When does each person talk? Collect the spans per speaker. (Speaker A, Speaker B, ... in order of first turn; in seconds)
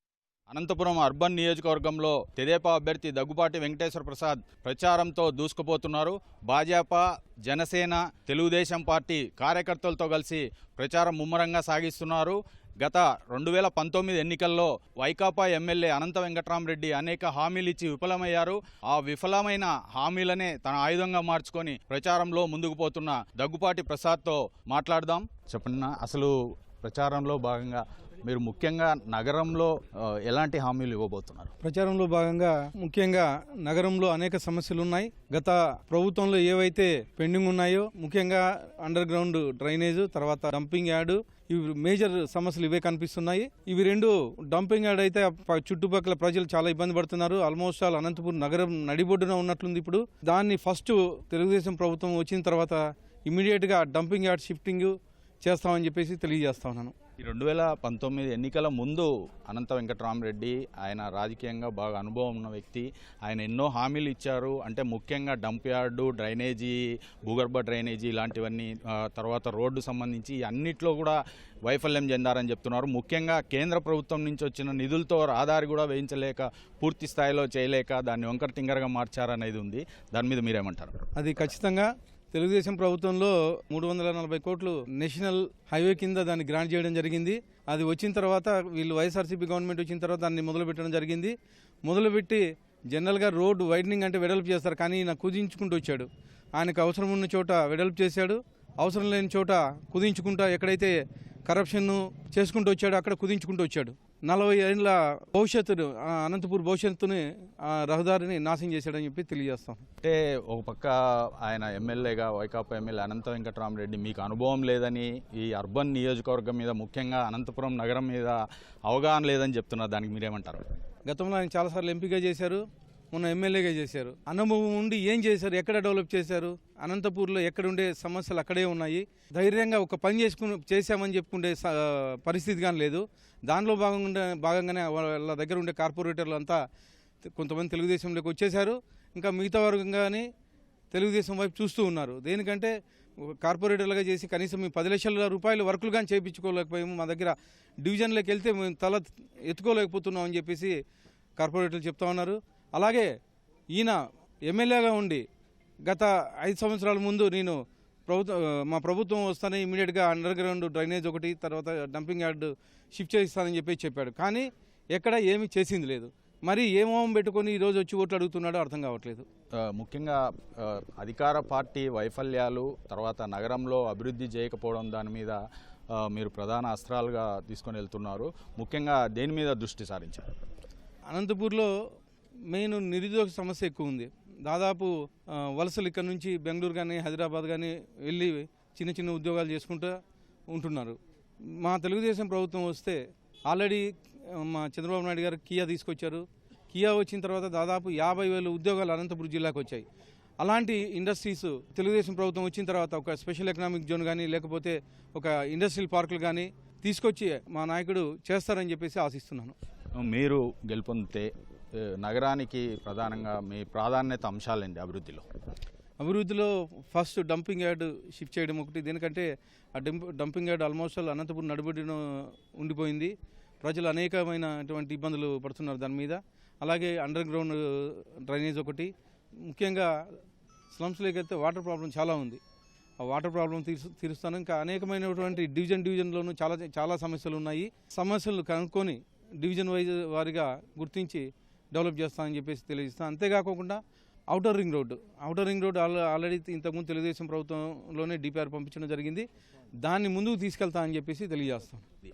Speaker A: 0.5-29.7, 30.3-31.5, 57.2-81.0, 110.0-120.6, 169.6-175.4, 175.9-180.3, 210.0-211.3, 211.8-215.2
Speaker B: 31.6-56.9, 81.2-91.3, 91.9-100.9, 101.5-109.8, 121.1-136.6, 137.2-140.2, 140.9-150.7, 151.4-153.1, 153.7-155.2, 155.8-169.2, 181.1-181.7, 182.5-189.9, 190.5-191.0, 191.6-193.0, 193.5-199.8, 200.4-209.6, 216.0-222.0, 222.6-223.1, 223.6-228.9, 229.5-229.9, 230.7-232.4, 233.0-243.8, 244.3-249.2, 249.8-251.8